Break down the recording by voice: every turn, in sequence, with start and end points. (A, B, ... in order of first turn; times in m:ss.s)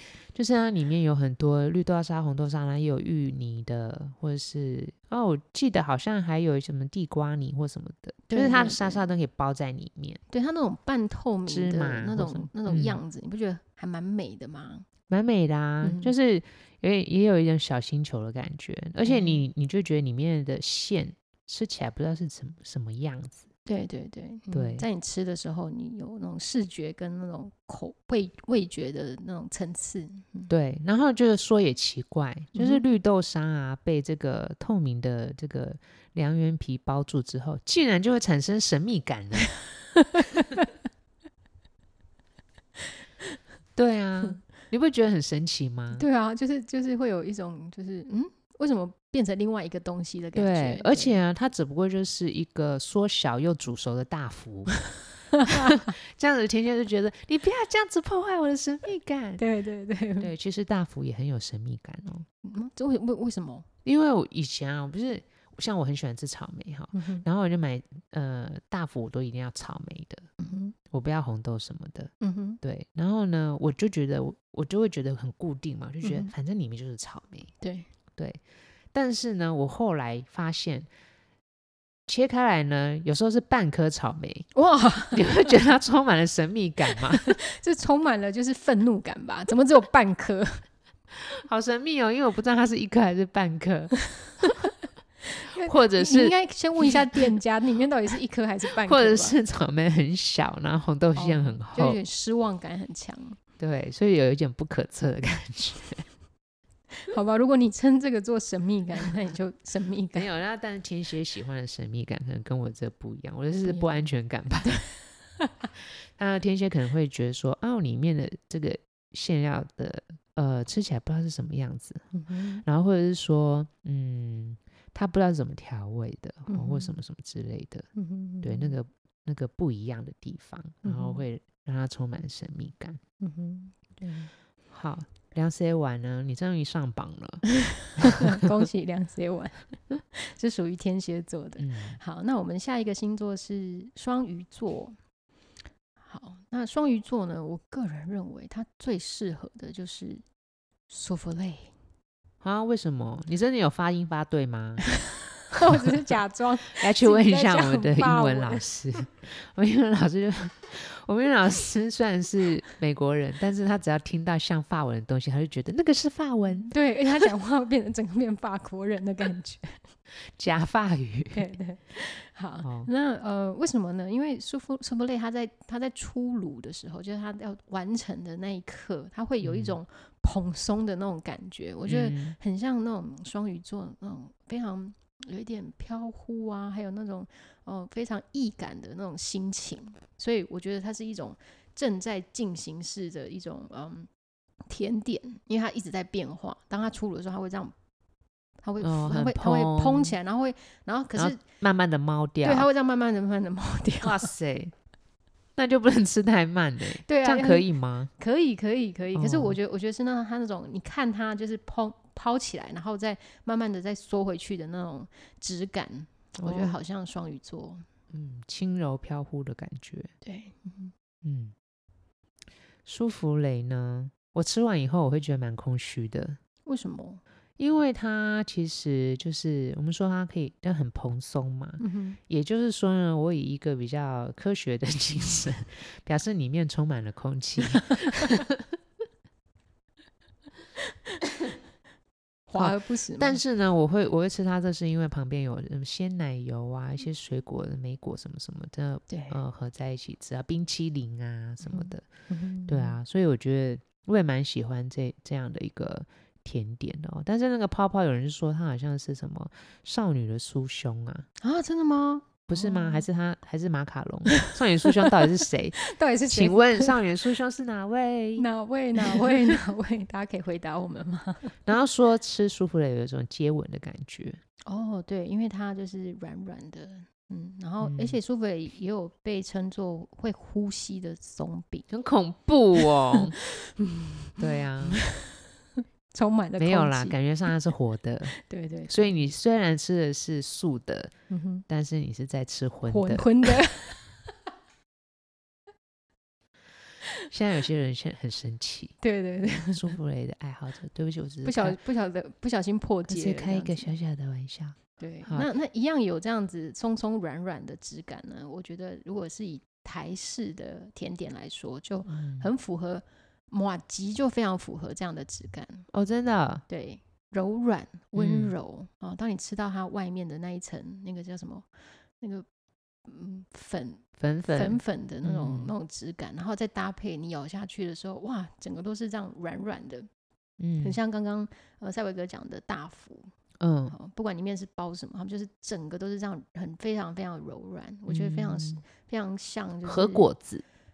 0:00.3-0:10.2 A
0:08.3-0:09.0 B
0:10.3-0:14.9 B
0:11.5-0:13.0 A
0:15.1-0:23.4 A
0:15.8-0:16.1 B
0:19.0-0:19.4 B
0:23.6-0:30.5 B
0:24.5-0:24.8 A
0:30.5-0:39.5 A
0:32.5-0:32.8 B
0:39.9-0:40.6 B
0:43.8-0:46.0 A
0:45.9-0:51.2 B
0:50.3-0:54.8 A
0:55.3-0:55.8 B
0:55.4-0:59.4 A
0:59.4-1:00.3 B
1:00.2-1:02.2 A
1:02.4-1:03.7 B
1:03.8-1:10.3 A
1:06.9-1:07.2 B
1:10.4-1:10.7 B
1:10.9-1:17.5 A
1:12.2-1:12.6 B
1:16.0-1:16.3 B
1:17.6-1:17.9 B
1:18.9-1:20.9 A
1:22.1-1:24.5 A
1:24.5-1:25.4 B
1:25.1-1:27.4 A
1:27.1-1:30.6 B
1:31.3-1:34.6 A
1:35.3-1:39.4 B
1:35.6-1:37.2 A
1:38.8-1:42.0 A
1:41.2-1:43.4 B
1:43.6-1:46.0 A
1:47.0-1:50.3 B
1:50.1-1:54.8 A
1:53.6-1:54.0 B
1:56.2-2:02.1 A
2:02.1-2:02.6 B
2:02.6-2:07.9 A
2:06.5-2:07.0 B
2:08.0-2:08.8 B
2:08.4-2:13.0 A
2:10.8-2:11.2 B
2:13.2-2:14.3 B
2:14.7-2:17.4 A
2:17.6-2:25.0 B
2:18.0-2:18.4 A
2:21.6-2:22.0 A
2:26.0-2:30.2 B
2:30.9-2:31.7 B
2:32.4-2:34.8 A
2:35.5-2:38.7 B
2:35.6-2:36.2 A
2:36.7-2:46.7 A
2:46.7-2:49.8 B
2:50.3-2:51.5 A
2:51.3-3:14.1 B
2:52.6-2:52.9 A
2:59.4-2:59.8 A
3:01.8-3:02.4 A
3:14.7-3:17.7 B
3:18.6-3:21.4 B
3:18.8-3:20.1 A
3:21.1-3:22.7 A
3:22.4-3:24.3 B
3:24.0-3:24.7 A
3:25.6-3:28.1 A
3:27.0-3:37.9 B
3:29.1-3:29.6 A
3:36.4-3:36.8 A
3:38.1-3:40.1 A
3:40.2-3:40.9 B
3:41.2-3:41.5 A
3:42.8-3:46.4 A
3:46.6-3:47.2 B
3:47.6-3:58.6 A
3:51.8-3:52.2 B
4:02.5-4:03.4 B
4:02.5-4:12.0 A
4:09.1-4:09.4 B
4:11.6-4:13.0 B
4:12.7-4:21.3 A
4:21.4-4:23.0 B
4:22.5-4:28.4 A
4:24.4-4:25.2 B
4:25.8-4:27.0 B
4:28.4-4:31.6 B
4:29.0-4:29.6 A
4:31.6-4:34.4 A
4:34.7-4:41.9 B
4:37.8-4:38.2 A
4:41.9-4:43.3 A
4:43.1-4:47.2 B
4:44.4-4:45.0 A
4:46.6-4:51.1 A
4:48.4-4:49.2 B
4:51.3-4:51.6 B
4:51.7-4:53.5 A
4:52.9-4:54.1 B
4:57.3-4:59.0 A
4:59.0-4:59.9 B
4:59.7-5:01.8 A
5:01.4-5:03.9 B
5:03.1-5:05.5 A
5:05.0-5:15.9 B
5:12.1-5:12.5 A
5:15.9-5:16.6 A
5:16.7-5:22.4 B
5:18.1-5:18.5 A
5:23.0-5:30.1 B
5:24.2-5:25.7 A
5:30.6-5:31.0 A
5:30.8-5:33.3 B
5:33.6-5:33.9 A
5:33.9-5:40.3 B
5:38.1-5:38.8 A
5:39.8-5:40.6 A